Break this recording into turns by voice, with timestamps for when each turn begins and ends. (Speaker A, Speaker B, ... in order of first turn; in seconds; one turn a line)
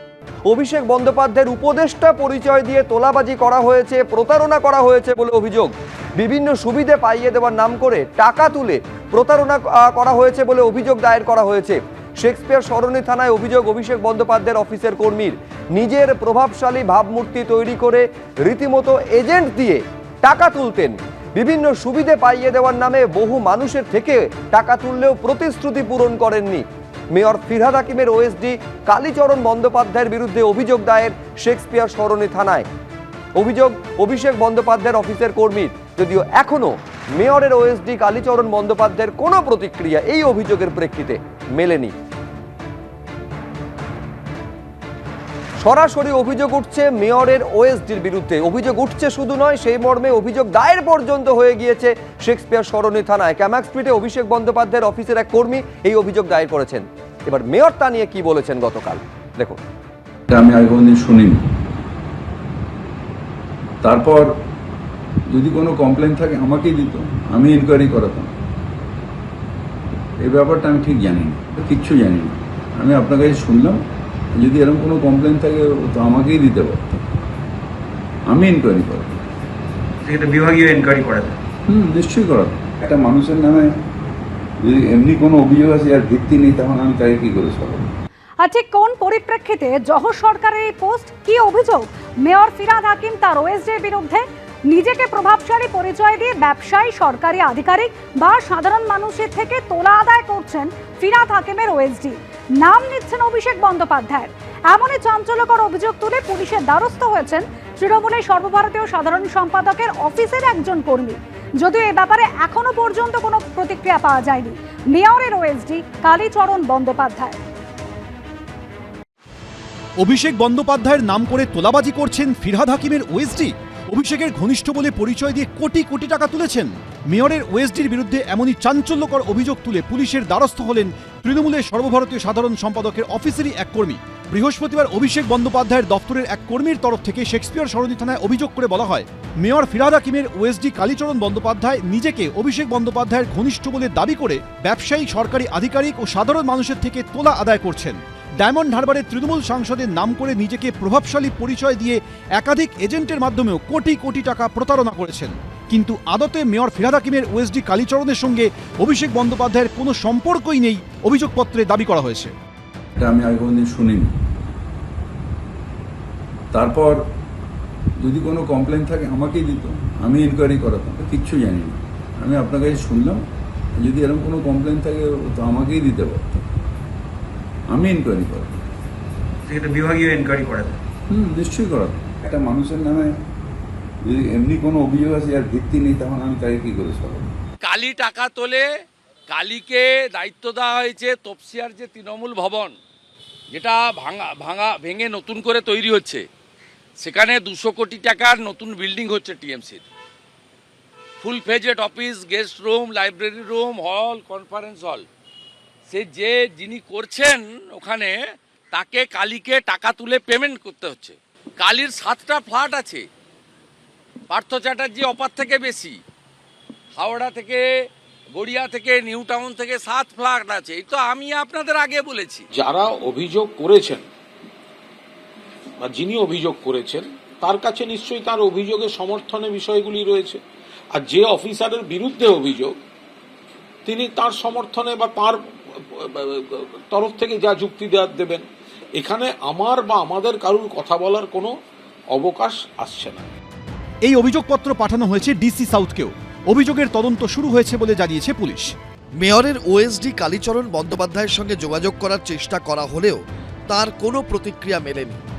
Speaker A: 0.5-32.6
Speaker A: 33.4-41.9
Speaker A: 45.6-59.6
Speaker B: 60.3-61.4
Speaker B: 63.8-64.3
Speaker B: 65.3-68.3
Speaker B: 70.2-77.0
Speaker B: 78.3-79.2
Speaker C: 80.0-81.4
Speaker B: 81.7-83.7
Speaker B: 84.6-87.9
Speaker D: 88.4-117.4
Speaker E: 120.0-162.3
Speaker B: 162.9-164.1
Speaker B: 166.5-167.0
Speaker B: 168.0-173.2
Speaker B: 173.8-176.4
Speaker B: 177.7-178.6
Speaker C: 179.4-180.8
Speaker B: 181.1-183.1
Speaker B: 184.0-187.3
Speaker F: 187.6-188.6
Speaker F: 189.3-192.7
Speaker F: 193.5-196.2
Speaker F: 197.0-199.8
Speaker F: 201.2-205.1
Speaker F: 205.9-208.2
Speaker F: 208.7-213.0
Speaker F: 214.3-216.0
Speaker F: 217.0-217.6
Speaker F: 218.3-222.4
Speaker G: 222.5-224.0
Speaker G: 225.8-230.4
Speaker G: 230.9-232.8
Speaker G: 233.8-238.4
Speaker G: 239.0-241.6
Speaker G: 242.1-243.3
Speaker E: 244.0-248.7
Speaker H: 249.2-255.2